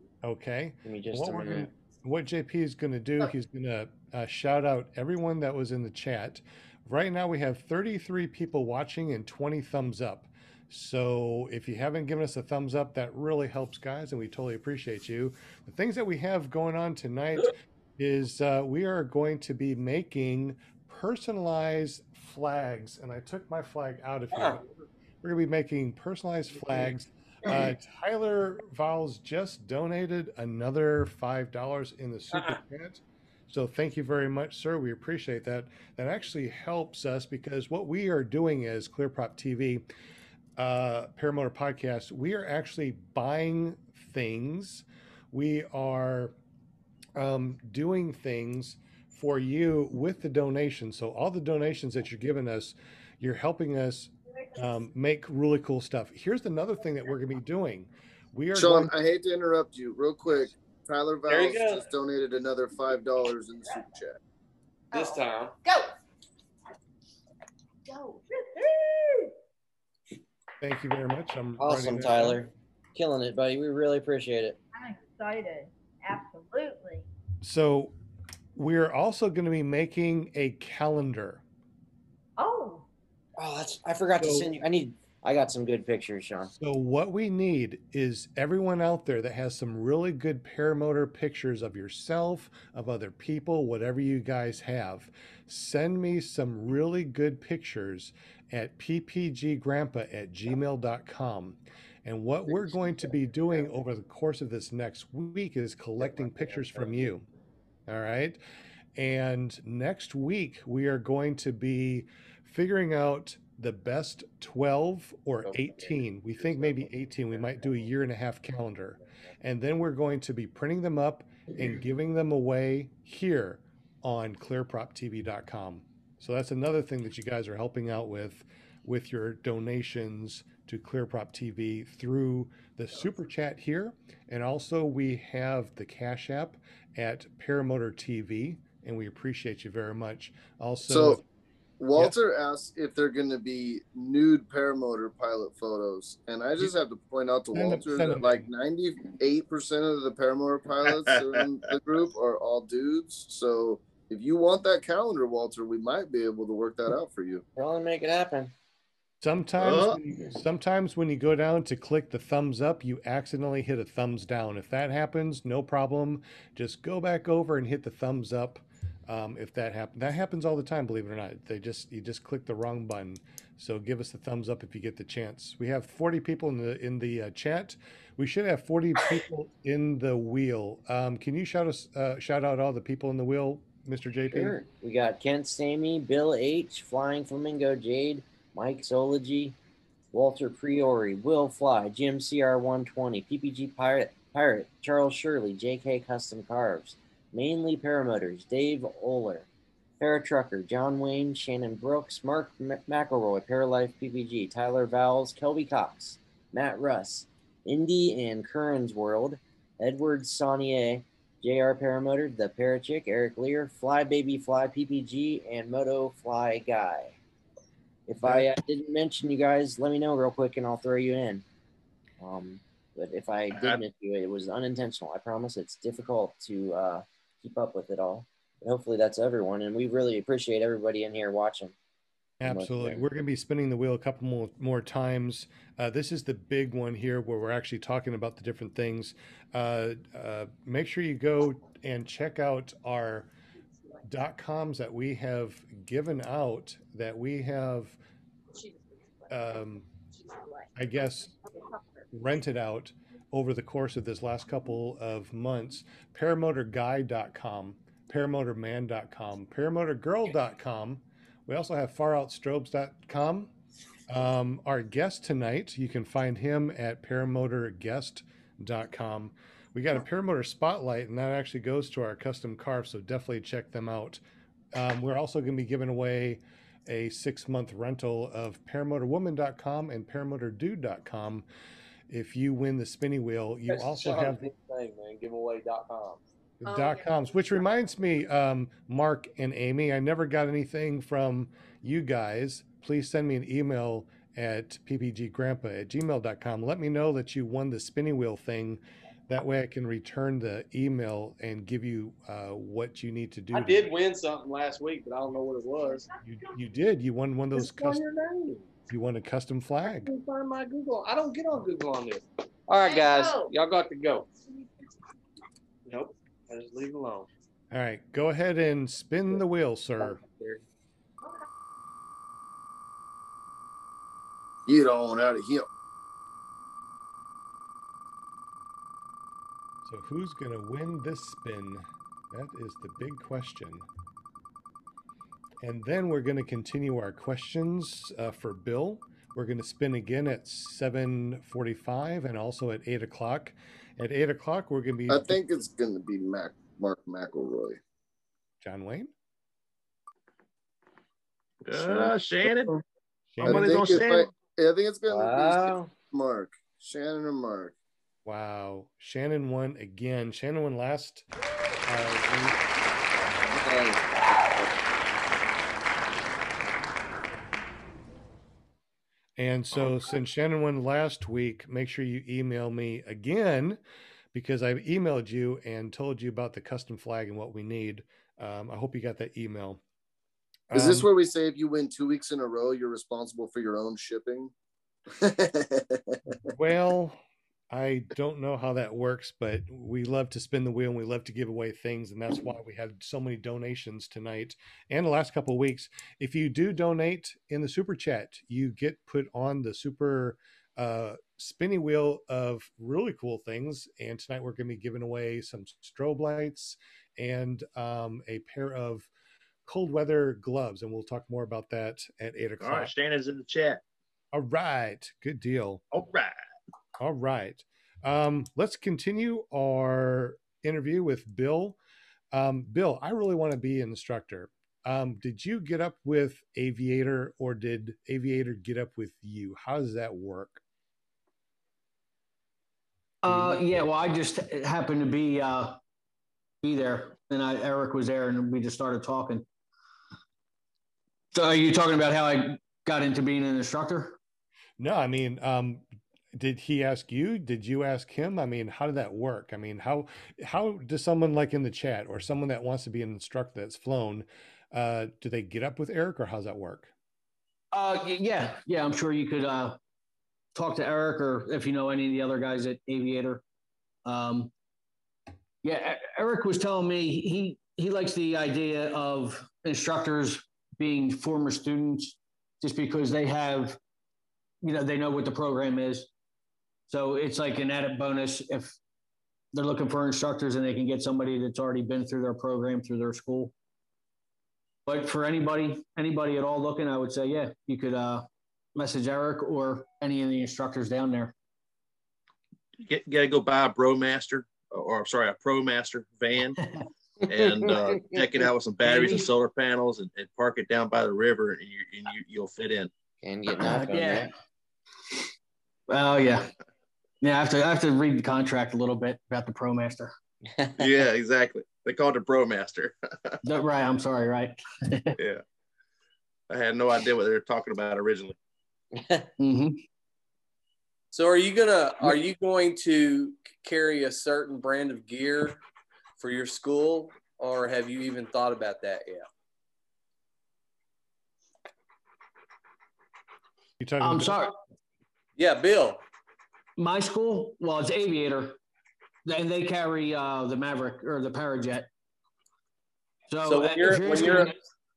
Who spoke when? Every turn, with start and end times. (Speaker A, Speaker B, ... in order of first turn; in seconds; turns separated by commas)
Speaker A: 0.2-24.7, Speaker B: 0.8-1.7, Speaker A: 25.2-39.9, Speaker A: 40.6-46.3, Speaker A: 47.1-58.9, Speaker C: 58.5-64.2, Speaker D: 61.3-61.9, Speaker D: 64.9-65.5, Speaker E: 64.9-65.9, Speaker E: 67.9-69.3, Speaker A: 70.6-72.4, Speaker B: 71.6-74.6, Speaker E: 74.7-77.1, Speaker A: 77.4-77.9, Speaker A: 78.5-81.4, Speaker E: 82.4-82.8, Speaker B: 83.4-86.5, Speaker A: 86.6-107.2, Speaker B: 106.0-107.0, Speaker A: 107.9-108.4, Speaker A: 109.0-141.2, Speaker B: 115.4-117.6, Speaker C: 140.8-141.2, Speaker C: 141.8-157.4, Speaker A: 147.5-148.5, Speaker B: 157.6-158.5, Speaker A: 159.2-184.6, Speaker F: 159.6-160.0, Speaker B: 184.3-189.6, Speaker B: 190.1-199.5, Speaker B: 200.0-217.2, Speaker B: 218.1-221.4, Speaker A: 218.2-218.5, Speaker B: 222.2-231.7, Speaker F: 223.6-223.8, Speaker A: 232.4-243.3, Speaker B: 232.4-233.1, Speaker A: 244.0-248.0, Speaker A: 249.3-249.9, Speaker A: 250.7-251.3, Speaker A: 252.1-263.5, Speaker A: 264.1-274.2, Speaker A: 274.7-281.4, Speaker A: 282.1-284.5, Speaker D: 283.7-286.2, Speaker A: 286.6-303.9, Speaker D: 303.5-306.0, Speaker E: 305.8-306.1, Speaker A: 306.2-308.0, Speaker D: 307.6-308.6, Speaker A: 308.9-310.1, Speaker D: 309.9-314.3, Speaker E: 312.8-313.5, Speaker D: 315.9-317.3, Speaker A: 317.7-320.2, Speaker D: 320.0-320.6, Speaker C: 324.6-325.6, Speaker A: 329.8-333.9, Speaker A: 335.6-345.4, Speaker C: 345.1-347.8, Speaker A: 348.6-349.1, Speaker F: 351.6-352.7, Speaker C: 351.7-352.1, Speaker A: 353.3-354.0, Speaker F: 353.4-354.3, Speaker C: 353.4-357.7, Speaker B: 355.1-355.9, Speaker A: 358.2-361.2, Speaker A: 361.8-362.6, Speaker C: 363.5-364.0, Speaker A: 369.4-373.8, Speaker A: 374.3-379.8, Speaker A: 380.7-381.1, Speaker C: 380.7-384.5, Speaker C: 385.2-386.2, Speaker A: 386.5-387.2, Speaker A: 387.7-409.1, Speaker A: 409.6-412.9, Speaker F: 412.6-413.8, Speaker A: 414.3-415.8, Speaker F: 415.9-416.3, Speaker A: 417.0-421.8, Speaker A: 422.3-430.6, Speaker G: 433.2-435.8, Speaker A: 433.3-433.6, Speaker G: 436.6-439.4, Speaker G: 441.3-444.2, Speaker A: 444.8-456.9, Speaker G: 457.7-459.8, Speaker G: 460.5-463.4, Speaker G: 464.1-464.5, Speaker G: 465.6-473.8, Speaker G: 474.6-476.1, Speaker G: 476.9-478.8, Speaker G: 479.5-483.5, Speaker G: 484.9-491.3, Speaker F: 492.8-496.6, Speaker G: 496.6-496.8, Speaker F: 497.3-502.9, Speaker G: 498.8-499.2, Speaker B: 503.2-504.3, Speaker G: 503.6-504.3, Speaker G: 505.9-506.5, Speaker G: 507.2-510.1, Speaker B: 510.5-510.8, Speaker F: 510.8-513.4, Speaker G: 513.4-515.1, Speaker F: 516.5-518.4, Speaker B: 518.9-519.2, Speaker G: 519.4-519.8, Speaker D: 521.1-525.6, Speaker D: 526.2-529.2, Speaker A: 533.8-534.4, Speaker G: 534.0-534.5, Speaker D: 535.4-536.0, Speaker G: 536.8-538.6, Speaker G: 539.2-541.9, Speaker G: 543.3-544.5, Speaker D: 543.4-544.5